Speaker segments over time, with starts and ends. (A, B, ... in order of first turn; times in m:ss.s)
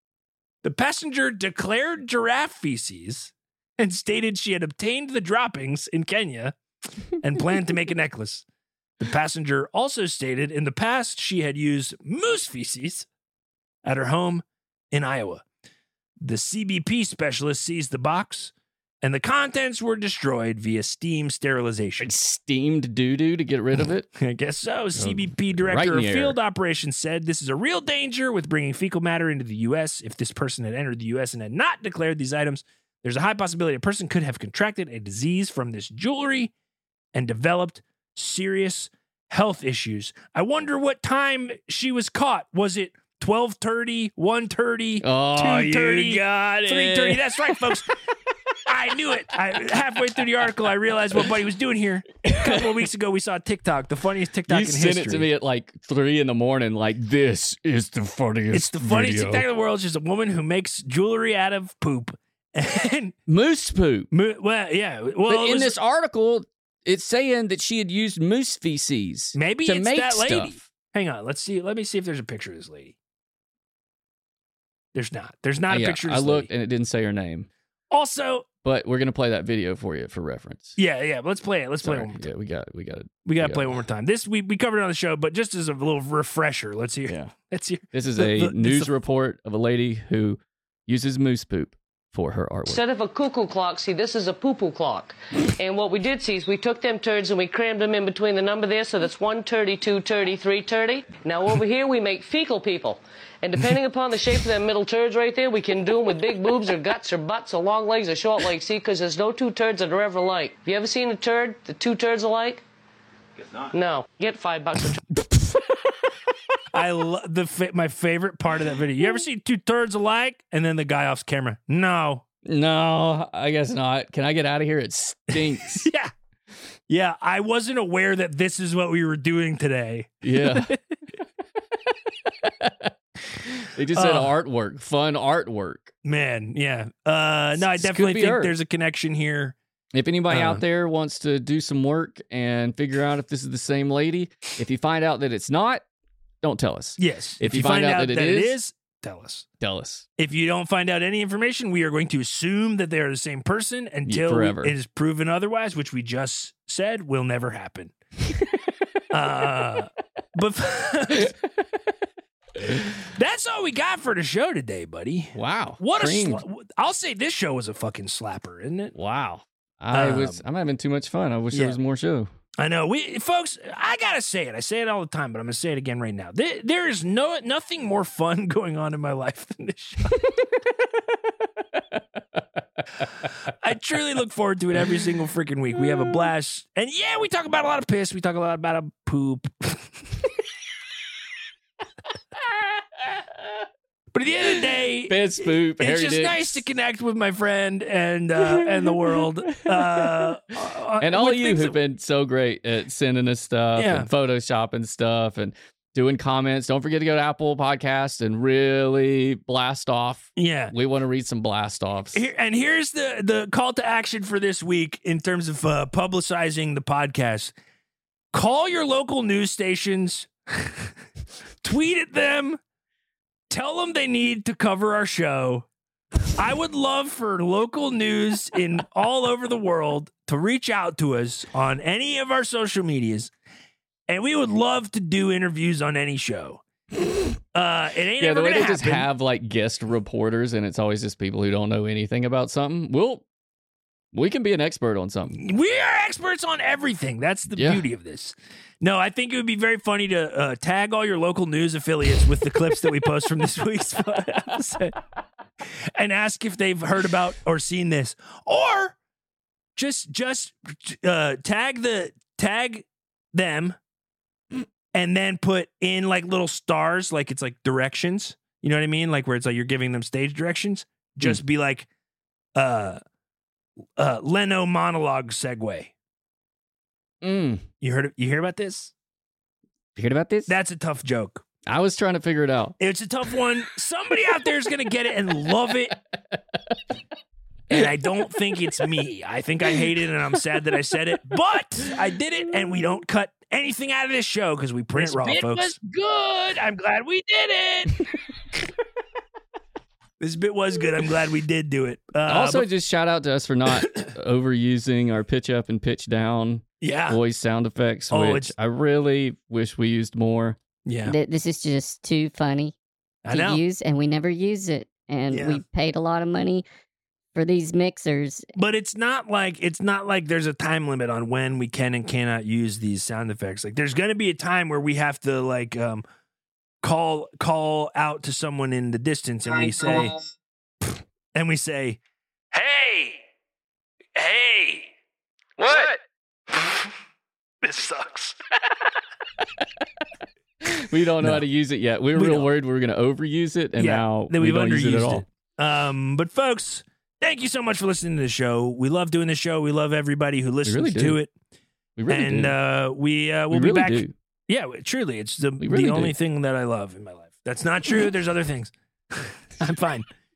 0:00.6-0:06.5 A
0:07.2-0:08.4 A
0:09.0-0:13.0 A
0:13.8-0:15.4 A
0:16.2-0:22.1 A
0:22.0-0:24.1 B
0:24.1-0:36.5 A
0:25.0-0:26.4 B
0:37.1-0:47.9 A
0:45.0-0:47.9 B
0:48.6-0:55.3 A
0:52.2-0:52.7 B
0:54.5-0:59.4 B
0:58.5-1:03.1 A
1:03.3-1:04.1 B
1:04.1-1:05.8 A
1:05.3-1:10.6 B
1:09.3-1:12.9 A
1:14.9-1:16.5 A
1:15.7-1:17.5 B
1:17.9-1:18.4 A
1:18.6-1:20.8 B
1:20.8-1:22.2 A
1:21.8-1:23.8 B
1:23.2-1:28.9 A
1:27.1-1:27.3 B
1:27.9-1:32.8 B
1:32.7-1:52.6 C
1:53.7-1:55.0 C
1:56.7-2:02.2 A
2:02.4-2:05.9 B
2:05.6-2:06.1 A
2:06.9-2:10.8 A
2:10.2-2:10.7 B
2:12.4-2:15.9 B
2:13.9-2:14.3 A
2:16.0-2:19.5 A
2:17.6-2:18.5 B
2:19.9-2:25.8 B
2:20.3-2:20.6 A
2:26.4-2:28.5 B
2:27.0-2:29.5 A
2:29.6-2:30.0 B
2:30.2-2:37.9 A
2:34.0-2:34.7 B
2:39.1-2:41.3 A
2:43.0-2:48.9 A
2:45.3-2:46.4 B
2:48.9-2:52.3 B
2:49.9-2:50.4 A
2:51.5-2:51.8 A
2:52.6-3:00.2 A
3:03.6-3:09.9 A
3:14.1-3:21.8 A
3:15.1-3:16.6 B
3:18.6-3:20.3 B
3:21.0-3:32.2 B
3:23.8-3:24.1 A
3:30.4-3:30.7 A
3:32.1-3:37.5 A
3:38.3-3:40.9 A
3:41.6-3:42.6 A
3:43.5-3:45.7 A
3:46.4-3:53.3 A
3:54.1-3:56.6 A
3:57.5-3:59.0 A
3:58.2-4:03.2 B
4:04.1-4:05.4 B
4:05.3-4:15.0 A
4:07.6-4:07.8 B
4:15.9-4:19.0 A
4:19.8-4:23.8 A
4:24.9-4:31.9 A
4:32.6-4:33.0 A
4:34.0-4:35.9 A
4:37.2-4:37.6 B
4:37.8-4:38.9 A
4:39.9-4:40.5 B
4:40.5-4:41.4 A
4:41.7-4:42.7 B
4:42.8-4:45.9 A
4:47.7-4:58.0 A
4:55.0-4:55.8 B
5:00.2-5:02.6 A
5:02.3-5:10.6 B
5:06.8-5:07.2 A
5:08.1-5:08.5 A
5:10.8-5:11.2 A
5:11.1-5:12.7 D
5:13.2-5:13.6 A
5:13.3-5:16.6 D
5:15.3-5:15.6 A
5:17.3-5:18.4 D
5:18.6-5:26.0 A
5:26.8-5:30.1 A
5:30.9-5:32.0 A
5:32.5-5:33.2 A
5:34.2-5:34.9 A
5:35.6-5:35.9 A
5:35.6-5:35.9 B
5:37.6-5:38.3 A
5:40.6-5:45.2 B
5:42.1-5:42.5 A
5:43.8-5:51.3 A
5:50.6-5:51.2 B
5:52.0-5:52.6 B
5:52.1-6:00.0 A
5:53.5-5:54.1 B
5:55.6-5:56.1 B